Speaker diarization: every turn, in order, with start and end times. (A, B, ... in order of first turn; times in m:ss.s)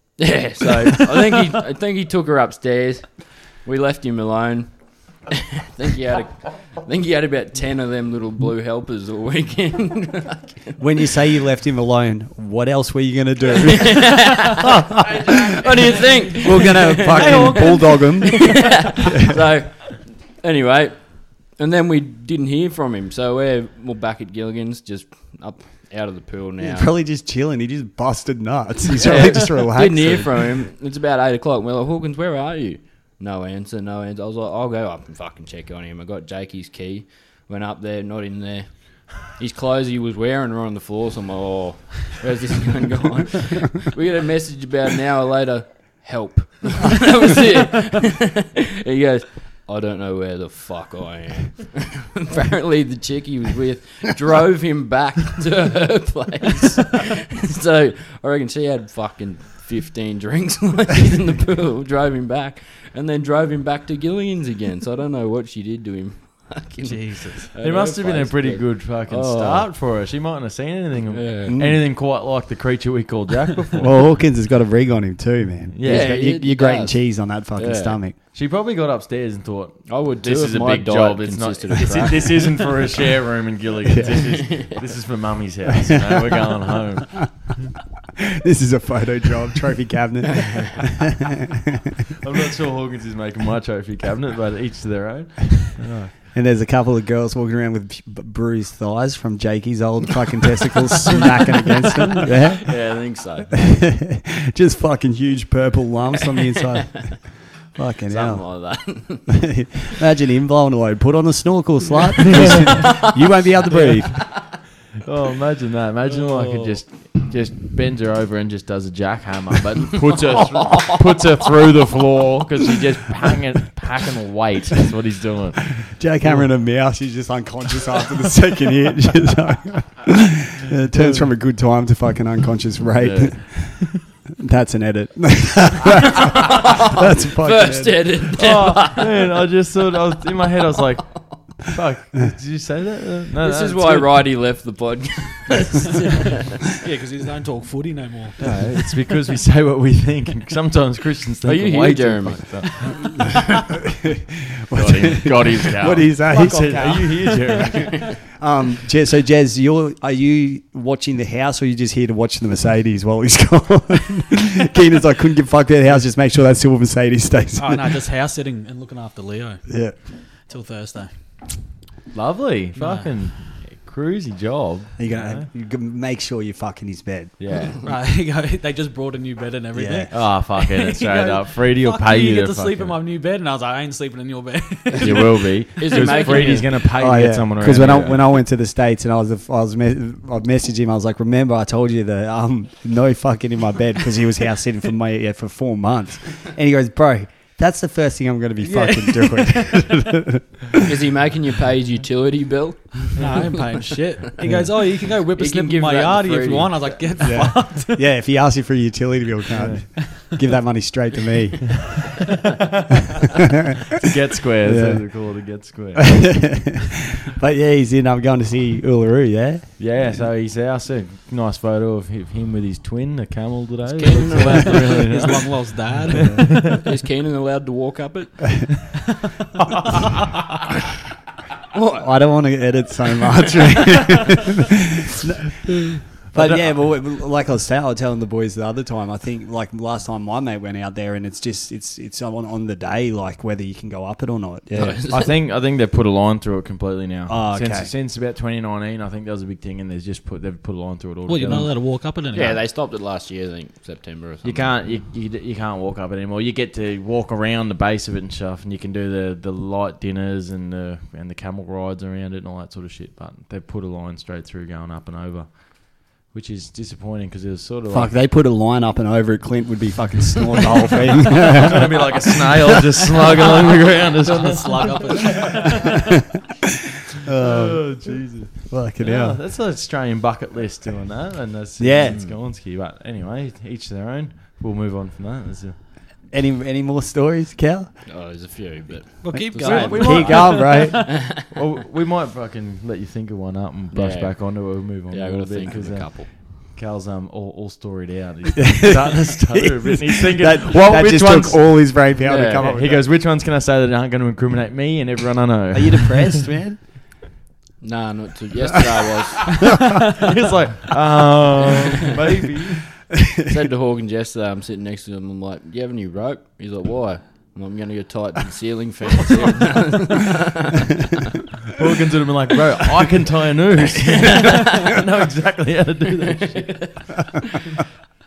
0:00.2-0:10.8 A
0:10.8-0:15.3 B
0:13.8-0:14.6 A
0:15.3-0:16.1 C
0:15.5-0:26.9 A
0:16.4-0:18.8 B
0:17.1-0:18.5 D
0:26.6-0:30.5 B
0:28.9-1:09.7 A
1:06.8-1:07.4 D
1:06.9-1:14.1 C
1:11.1-1:11.5 A
1:11.5-1:11.8 B
1:13.8-1:18.2 B
1:15.7-1:16.2 C
1:15.8-1:18.0 A
1:18.3-1:27.5 C
1:19.9-1:22.5 A
1:23.9-1:24.2 B
1:24.3-1:24.8 A
1:26.0-1:26.4 B
1:28.2-1:31.1 B
1:32.2-1:36.1 C
1:36.3-1:54.2 B
1:42.6-1:43.5 A
1:48.1-1:49.6 A
1:52.4-1:52.8 C
1:52.8-1:53.0 A
1:55.0-2:06.5 C
1:56.3-1:56.7 A
2:05.8-2:18.2 B
2:10.9-2:11.3 C
2:13.0-2:13.8 C
2:16.3-2:19.1 A
2:18.4-2:24.4 C
2:23.4-2:26.5 A
2:26.8-2:28.4 D
2:28.4-2:33.2 C
2:31.4-2:33.1 A
2:34.4-2:37.1 B
2:34.7-2:38.0 C
2:36.3-2:37.8 D
2:38.3-2:47.8 B
2:47.6-2:51.1 D
2:49.7-2:50.0 B
2:52.1-2:55.5 C
2:52.7-2:53.1 D
2:55.0-2:57.4 B
2:57.4-2:57.8 C
2:57.8-3:06.6 D
2:59.7-3:00.1 B
3:00.1-3:03.0 C
3:05.0-3:05.2 A
3:05.0-3:08.2 C
3:05.8-3:06.7 A
3:07.0-3:20.6 B
3:18.6-3:19.3 D
3:20.8-3:23.4 A
3:23.2-3:28.0 D
3:25.3-3:27.0 A
3:27.2-3:32.0 B
3:29.6-3:29.8 C
3:34.0-3:36.5 C
3:34.6-3:35.4 B
3:36.0-3:40.0 B
3:39.8-3:46.8 C
3:44.0-3:45.0 A
3:44.0-3:46.6 D
3:46.1-3:46.5 B
3:46.8-3:48.7 A
3:51.7-3:52.0 A
3:51.9-4:05.0 B
3:56.3-3:56.8 C
4:04.7-4:05.3 A
4:05.1-4:11.8 C
4:07.3-4:07.9 B
4:11.2-4:12.6 D
4:12.3-4:14.7 A
4:14.4-4:28.2 C
4:27.9-4:31.9 B
4:31.6-4:35.9 C
4:34.2-4:36.1 D
4:37.2-4:39.4 B
4:37.4-4:45.8 C
4:41.8-4:42.2 B
4:42.1-4:42.3 A
4:46.3-4:48.1 B
4:48.0-4:51.4 A
4:49.2-4:51.1 D
4:49.3-4:51.1 B
4:49.6-5:06.5 C
4:53.9-4:56.3 A
4:58.6-5:03.0 B
5:02.2-5:02.8 A
5:05.7-5:06.8 B
5:07.8-5:09.6 A
5:10.2-5:12.9 C
5:13.4-5:21.0 A
5:21.7-5:27.1 C
5:24.1-5:24.9 A
5:26.4-5:27.0 A